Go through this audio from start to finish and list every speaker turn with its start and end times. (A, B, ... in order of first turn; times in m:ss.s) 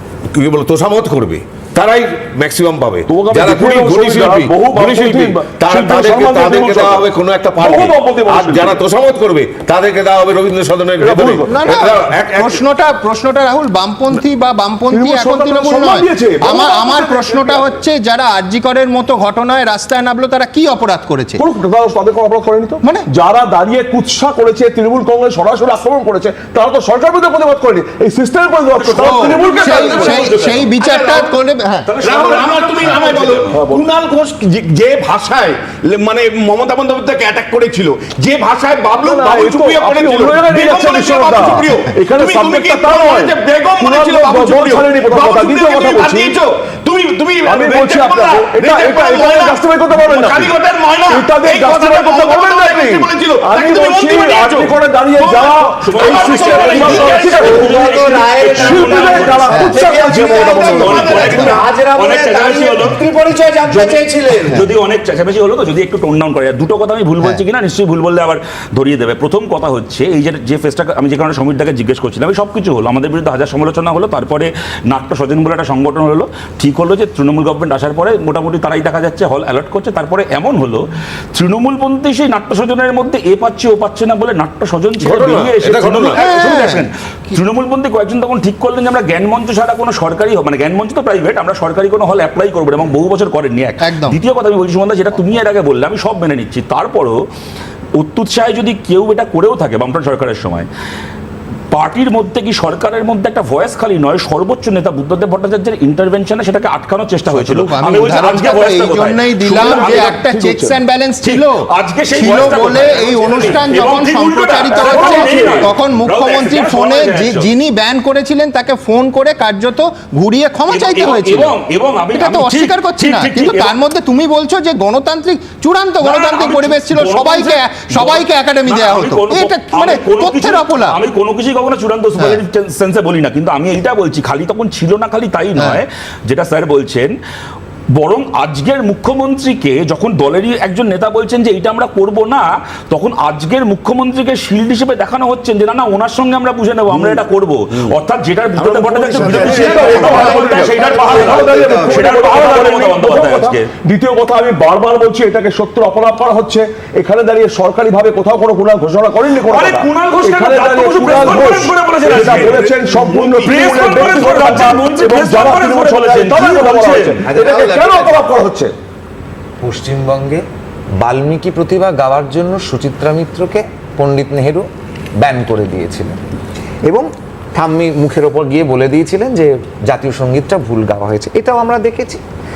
0:00.3-0:12.6 A
0:03.1-0:08.8 B
0:11.0-0:12.0 B
0:11.5-0:21.4 C
0:14.9-0:17.8 B
0:21.4-0:30.2 B
0:29.0-0:30.8 D
0:29.0-0:29.4 E
0:29.0-0:31.9 C
0:30.2-0:31.4 E
0:31.8-0:33.5 D
0:32.0-0:58.3 E
0:33.5-0:33.9 B
0:39.0-0:46.3 B
0:47.4-0:50.6 B
0:51.1-0:57.5 B
0:55.8-0:59.5 D
0:57.4-0:59.9 F
0:58.2-0:58.6 C
0:58.5-1:01.6 B
0:59.5-1:01.7 C
0:59.9-1:01.6 E
1:00.6-1:03.0 D
1:00.6-1:04.6 F
1:03.7-1:20.8 D
1:21.3-1:37.2 D
1:25.0-1:26.2 A
1:26.2-1:26.9 C
1:33.8-1:34.2 C
1:38.0-1:40.7 D
1:41.7-1:50.1 D
1:47.3-2:01.6 C
1:49.5-1:50.8 B
1:51.2-1:57.5 D
1:52.2-1:52.8 B
1:54.7-1:55.7 B
2:00.7-2:03.8 D
2:02.1-2:11.0 C
2:06.0-2:17.1 D
2:12.2-2:12.4 C
2:15.6-2:15.8 C
2:17.9-2:33.7 D
2:28.7-2:31.8 E
2:29.1-2:48.7 B
2:39.4-2:42.8 D
2:43.3-2:47.2 D
2:47.2-2:48.3 F
2:49.6-2:50.4 F
2:51.0-2:54.7 F
2:55.2-2:56.2 F
2:56.9-3:02.2 F